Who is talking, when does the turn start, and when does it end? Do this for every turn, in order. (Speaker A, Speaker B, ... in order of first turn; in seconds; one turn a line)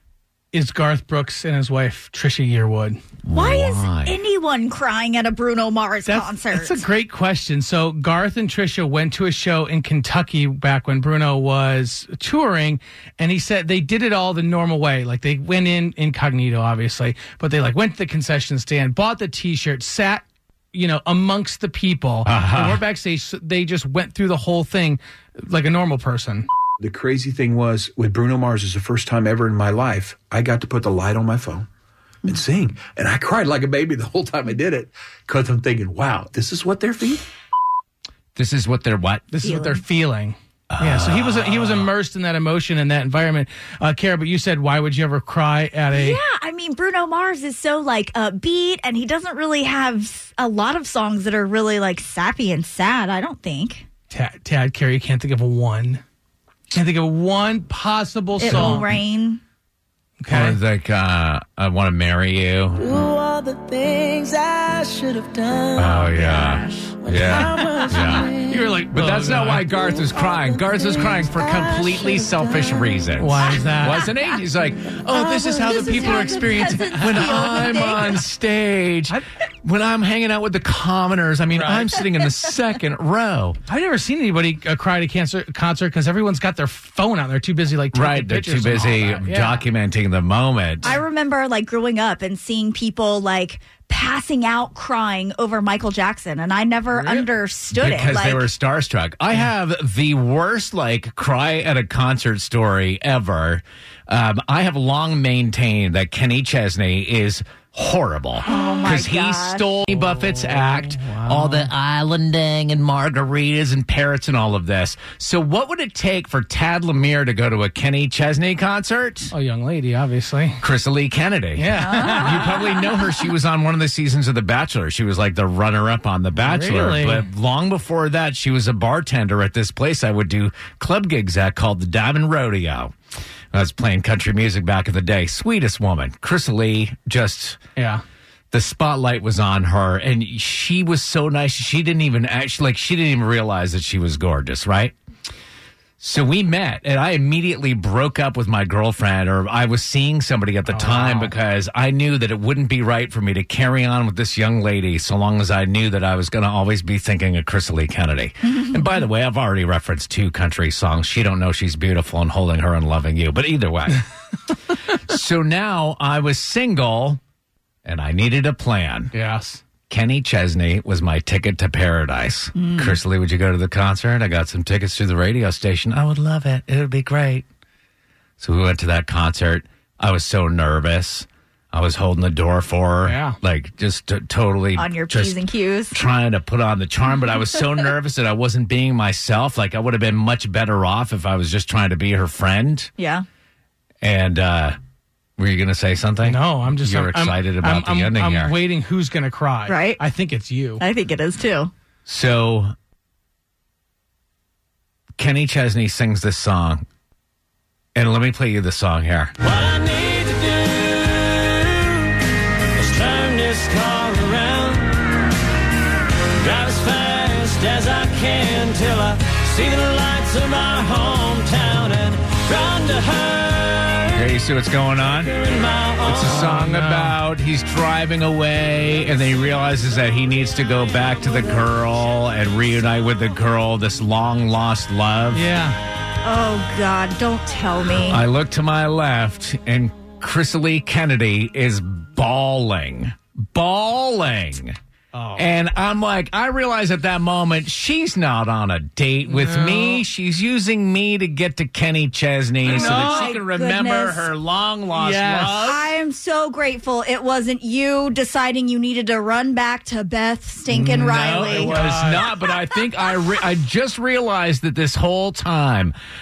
Speaker A: 0.5-3.0
Speaker B: 3.2-4.2
Speaker C: 3.3-6.8
Speaker A: 6.1-26.5
Speaker B: 22.2-22.8
Speaker D: 26.8-31.7
Speaker D: 32.2-37.2
Speaker B: 38.3-39.2
Speaker A: 39.3-46.2
Speaker C: 39.4-39.8
Speaker B: 40.7-41.9
Speaker C: 45.9-53.8
Speaker A: 54.1-56.0
Speaker A: 56.7-58.9
Speaker C: 58.4-59.4
Speaker A: 60.2-60.6
Speaker B: 60.3-63.0
Speaker E: 62.9-66.1
Speaker F: 64.8-66.6
Speaker B: 65.7-68.3
Speaker E: 66.9-68.4
Speaker A: 67.2-69.7
Speaker F: 67.9-68.2
Speaker B: 68.9-83.6
Speaker E: 70.9-72.1
Speaker A: 73.2-74.1
Speaker C: 75.1-78.2
Speaker A: 76.0-77.8
Speaker A: 81.5-82.0
Speaker A: 83.7-89.6
Speaker B: 87.9-90.9
Speaker C: 90.8-98.5
Speaker B: 97.7-119.3
Speaker C: 108.4-109.7
Speaker A: 110.3-111.7
Speaker A: 119.3-120.6
Speaker B: 120.6-132.9
Speaker A: 121.5-122.6
Speaker C: 121.8-122.7
Speaker A: 126.4-127.3
Speaker B: 133.5-137.6
Speaker A: 137.8-138.0
Speaker B: 138.5-144.9
Speaker B: 146.0-164.0
Speaker A: 150.7-151.3
Speaker B: 164.8-167.2
Speaker B: 167.8-169.1
Speaker A: 169.1-169.6
Speaker B: 169.9-177.4
Speaker C: 172.6-173.0
Speaker B: 178.4-185.4
Speaker A: 183.0-183.4
Speaker C: 184.8-186.0
Speaker B: 185.9-192.9
Speaker C: 193.0-193.2
Speaker B: 194.0-194.8
Speaker B: 195.4-198.6
Speaker A: 196.2-200.8
Speaker C: 199.7-200.0
Speaker C: 200.8-201.7
Speaker B: 202.1-202.7
Speaker B: 205.2-206.8
Speaker B: 207.9-209.3
Speaker F: 209.4-215.4
Speaker F: 216.2-224.1
Speaker B: 224.1-225.4
Speaker F: 225.3-226.2
Speaker B: 226.0-235.5
Speaker A: 226.2-227.2
Speaker A: 235.3-235.8
Speaker C: 236.2-238.2
Speaker B: 237.9-244.8
Speaker A: 245.1-245.5
Speaker B: 245.3-255.9
Speaker A: 249.3-250.0
Speaker A: 252.7-253.3
Speaker C: 252.7-254.3
Speaker A: 254.9-255.6
Speaker C: 255.5-261.8
Speaker A: 260.7-262.3
Speaker B: 261.0-265.9